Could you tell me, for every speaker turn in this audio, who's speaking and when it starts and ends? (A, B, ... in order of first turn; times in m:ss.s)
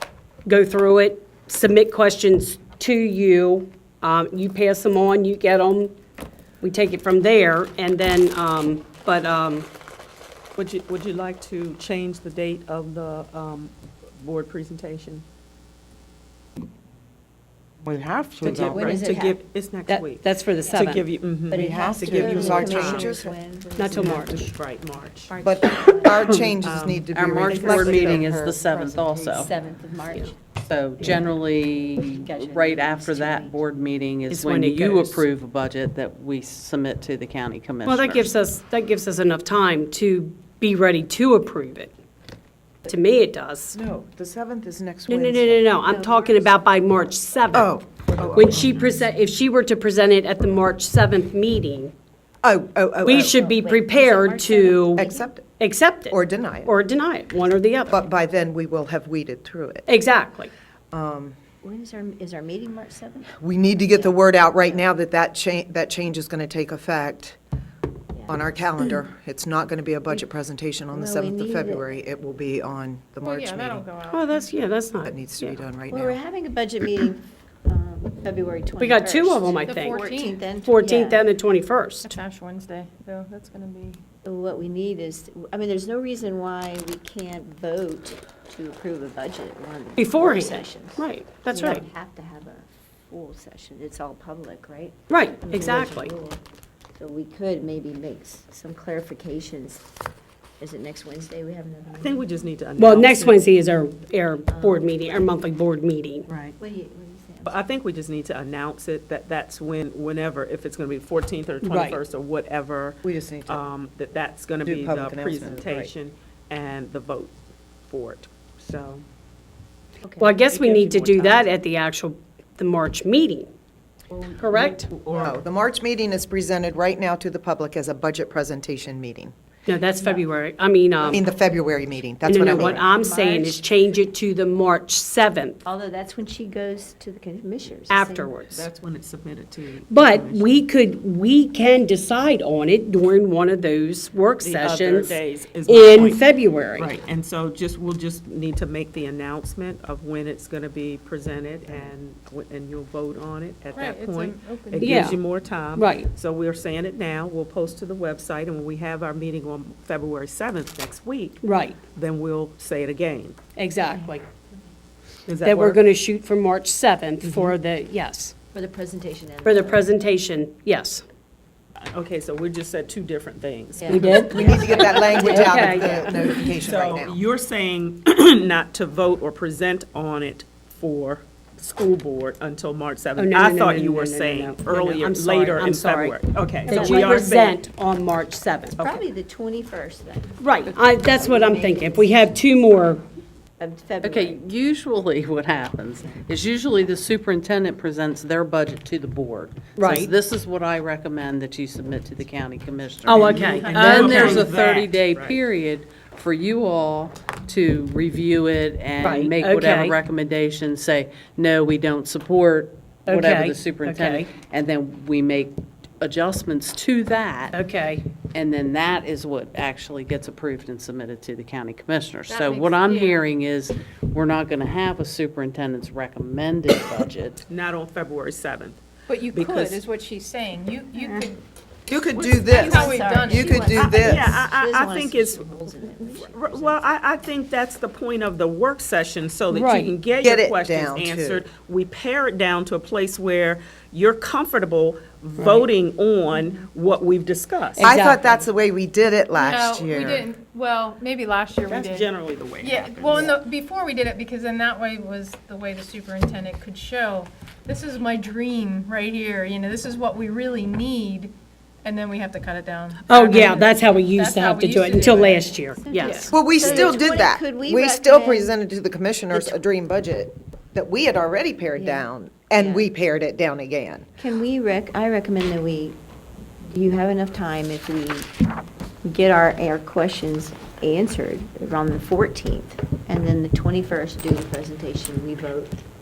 0:00.5-0:05.9 A
0:06.6-0:09.7 A
0:10.6-0:15.2 B
0:17.8-0:19.0 C
0:18.4-0:23.1 B
0:18.4-0:19.4 D
0:19.9-0:21.0 A
0:21.5-0:24.3 D
0:21.5-0:23.4 C
0:23.8-0:24.5 A
0:23.9-0:24.5 C
0:24.2-0:25.4 B
0:25.3-0:26.6 D
0:25.4-0:28.6 C
0:26.6-0:28.2 B
0:27.1-0:29.5 E
0:28.4-0:30.4 D
0:30.6-0:38.3 E
0:31.0-0:31.4 D
0:32.1-0:33.6 D
0:34.3-0:35.2 A
0:37.8-0:41.9 A
0:42.9-0:43.8 A
0:43.7-0:45.7 C
0:45.1-0:47.7 A
0:45.9-0:46.2 D
0:47.5-0:48.9 C
0:48.4-0:51.9 A
0:52.4-0:53.4 C
0:53.0-0:58.0 A
0:53.2-0:55.3 D
0:55.0-0:55.5 C
0:56.1-0:56.7 C
0:57.9-0:59.9 C
0:59.9-1:00.5 A
1:00.9-1:01.4 C
1:01.6-1:04.8 D
1:03.4-1:07.4 C
1:08.2-1:08.5 D
1:08.3-1:13.8 C
1:10.9-1:11.9 D
1:13.2-1:14.5 F
1:14.1-1:15.6 A
1:15.0-1:16.2 C
1:15.9-1:21.3 D
1:18.8-1:20.0 A
1:19.7-1:20.5 F
1:20.6-1:22.2 A
1:22.0-1:24.0 F
1:24.2-1:36.4 D
1:30.0-1:31.8 A
1:35.1-1:36.1 A
1:37.0-1:39.9 D
1:40.6-1:42.5 D
1:42.0-1:43.4 B
1:42.8-1:46.3 A
1:44.5-1:45.0 D
1:46.3-1:46.6 B
1:46.6-1:47.6 D
1:47.4-1:57.4 B
1:51.6-1:52.0 A
1:53.0-1:53.6 C
1:54.6-1:55.9 C
1:57.9-1:59.0 B
2:00.0-2:00.4 D
2:00.2-2:03.5 A
2:00.5-2:01.5 B
2:04.1-2:04.4 D
2:04.4-2:04.8 A
2:04.4-2:05.4 B
2:05.2-2:09.4 C
2:09.7-2:11.2 A
2:11.1-2:12.9 C
2:12.2-2:15.6 A
2:12.4-2:13.6 D
2:15.6-2:18.3 D
2:17.9-2:18.7 A
2:18.5-2:20.6 B
2:19.9-2:27.0 A
2:24.4-2:26.2 B
2:26.8-2:41.4 B
2:33.8-2:35.2 F
2:34.8-2:35.2 A
2:35.8-2:36.1 A
2:41.4-2:41.8 A
2:41.9-2:43.4 B
2:43.6-2:44.2 A
2:43.8-2:44.2 D
2:45.3-2:45.8 B
2:45.4-2:48.3 A
2:47.2-2:47.6 B
2:48.5-2:49.9 D
2:49.4-2:51.0 A
2:51.9-2:55.4 B
2:53.8-2:56.2 D
2:53.9-2:56.5 A
2:54.1-2:57.2 C
2:56.5-3:07.6 B
3:03.2-3:08.8 A
3:06.7-3:07.2 D
3:08.8-3:09.0 B
3:08.8-3:12.3 D
3:10.4-3:13.0 A
3:13.6-3:14.4 D
3:14.0-3:37.6 E
3:19.8-3:20.1 A
3:23.0-3:24.5 A
3:23.2-3:25.4 B
3:29.0-3:30.0 A
3:33.1-3:34.3 A
3:37.5-3:38.0 A
3:38.3-3:47.4 E
3:42.3-3:43.2 F
3:47.5-3:49.8 B
3:49.1-3:51.4 F
3:51.0-3:51.3 D
3:51.9-3:54.4 C
3:52.1-4:07.9 B
3:52.5-3:57.0 D
3:52.6-3:53.5 F
3:59.5-3:59.9 A
4:00.2-4:01.5 C
4:05.4-4:05.7 A
4:07.8-4:08.5 A
4:07.8-4:10.3 C
4:09.4-4:12.1 F
4:11.7-4:13.4 B
4:12.6-4:26.9 F
4:23.1-4:26.3 A
4:25.8-4:28.6 D
4:26.3-4:34.1 C
4:29.3-4:29.6 D
4:31.8-4:32.9 D
4:34.2-4:36.0 D
4:36.7-4:38.3 D
4:39.0-4:45.8 D